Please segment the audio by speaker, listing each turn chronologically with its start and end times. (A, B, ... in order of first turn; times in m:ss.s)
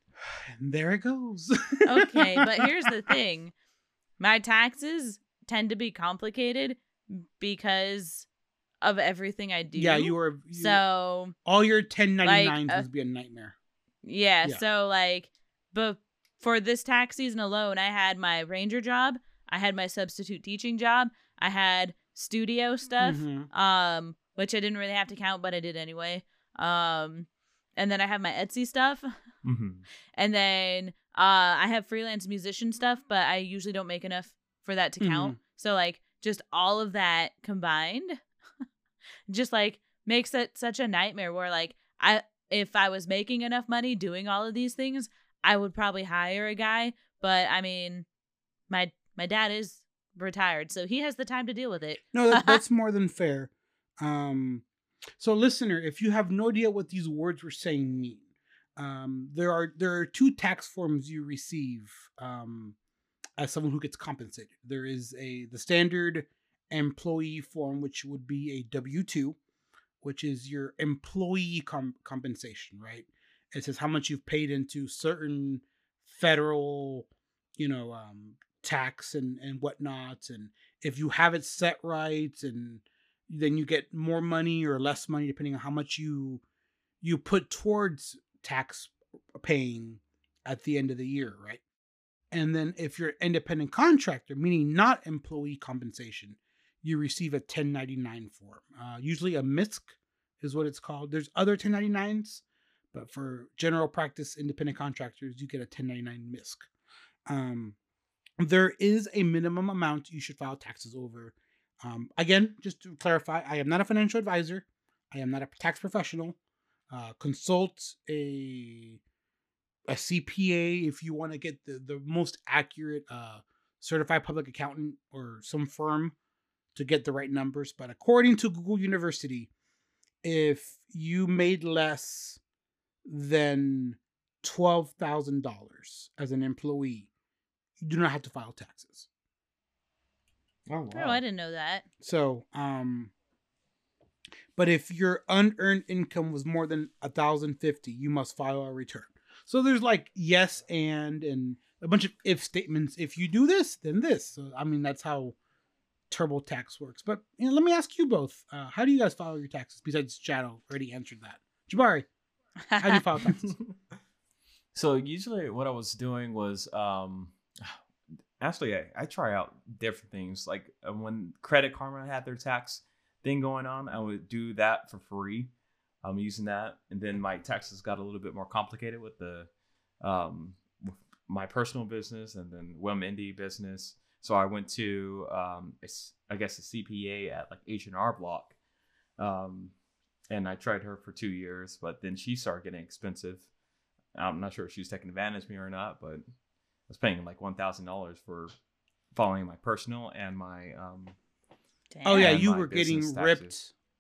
0:00.2-0:02.9 A
0:01.9-0:03.5 B
0:04.2-0:08.3 B
0:08.8-0:11.3 B
0:09.8-0:10.8 A
0:11.4-0:13.6 A
0:12.2-0:12.8 B
0:14.0-0:29.1 B
0:23.0-0:23.5 A
0:29.4-0:29.9 C
0:30.2-0:38.2 B
0:35.0-0:35.4 A
0:39.3-0:48.1 B
0:48.7-0:52.6 B
0:52.1-0:54.6 A
0:55.2-0:58.2 A
0:58.8-1:02.8 A
1:03.4-1:09.4 A
1:10.0-1:26.4 A
1:27.0-1:31.6 A
1:32.3-1:46.7 A
1:47.3-1:47.8 A
1:48.4-1:56.4 A
1:56.9-1:59.0 A
1:59.9-2:06.2 A
2:06.8-2:09.5 A
2:10.2-2:12.4 A
2:13.0-2:17.1 A
2:17.8-2:19.1 A
2:20.7-2:21.2 C
2:20.9-2:21.8 B
2:22.0-2:23.1 A
2:24.6-2:35.4 A
2:36.1-2:42.1 A
2:42.7-2:43.0 B
2:42.8-2:43.6 A
2:44.7-2:47.8 C
2:48.4-2:55.5 C
2:56.0-2:59.5 C
3:00.0-3:08.6 C
3:09.2-3:09.7 C
3:10.3-3:13.5 C
3:14.2-3:16.2 C
3:16.9-3:18.5 C
3:19.1-3:21.2 C
3:21.9-3:22.4 B
3:22.0-3:23.7 A
3:22.2-3:23.5 C